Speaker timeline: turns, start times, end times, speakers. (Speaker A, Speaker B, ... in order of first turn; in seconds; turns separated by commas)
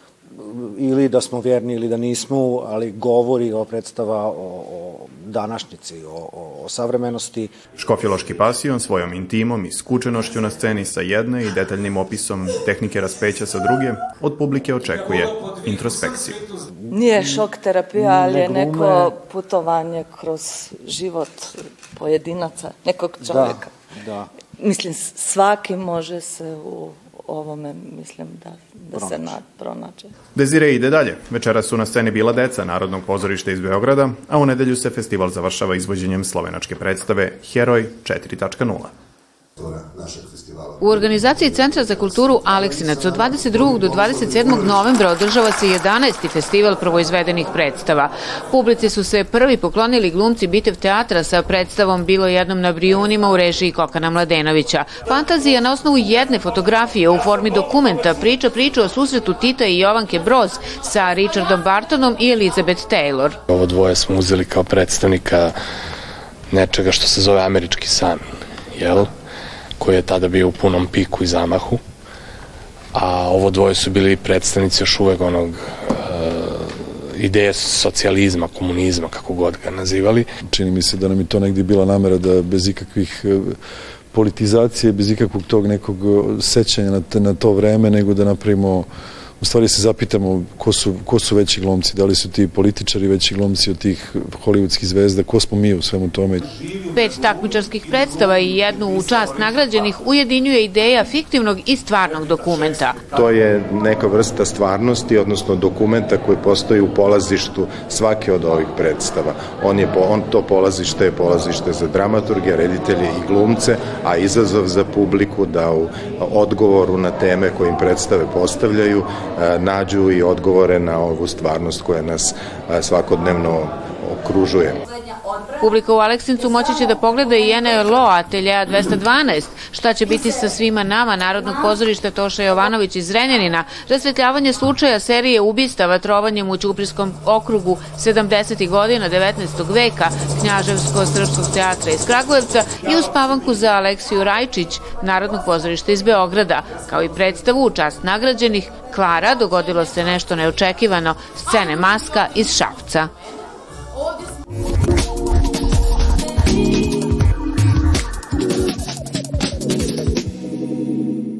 Speaker A: 0.4-7.5, Speaker B: 7.7-16.4, Speaker C: 16.9-23.7, Speaker A: 18.0-19.1, Speaker A: 23.2-24.3, Speaker C: 24.6-30.1, Speaker A: 28.9-29.3, Speaker B: 30.3-38.9, Speaker D: 40.8-63.4, Speaker E: 63.5-65.6, Speaker E: 66.5-69.1, Speaker E: 69.8-71.8, Speaker E: 72.9-80.3, Speaker F: 80.4-83.6, Speaker F: 84.1-88.9, Speaker F: 89.4-96.4, Speaker D: 96.9-103.0, Speaker G: 103.1-124.8, Speaker D: 125.6-153.1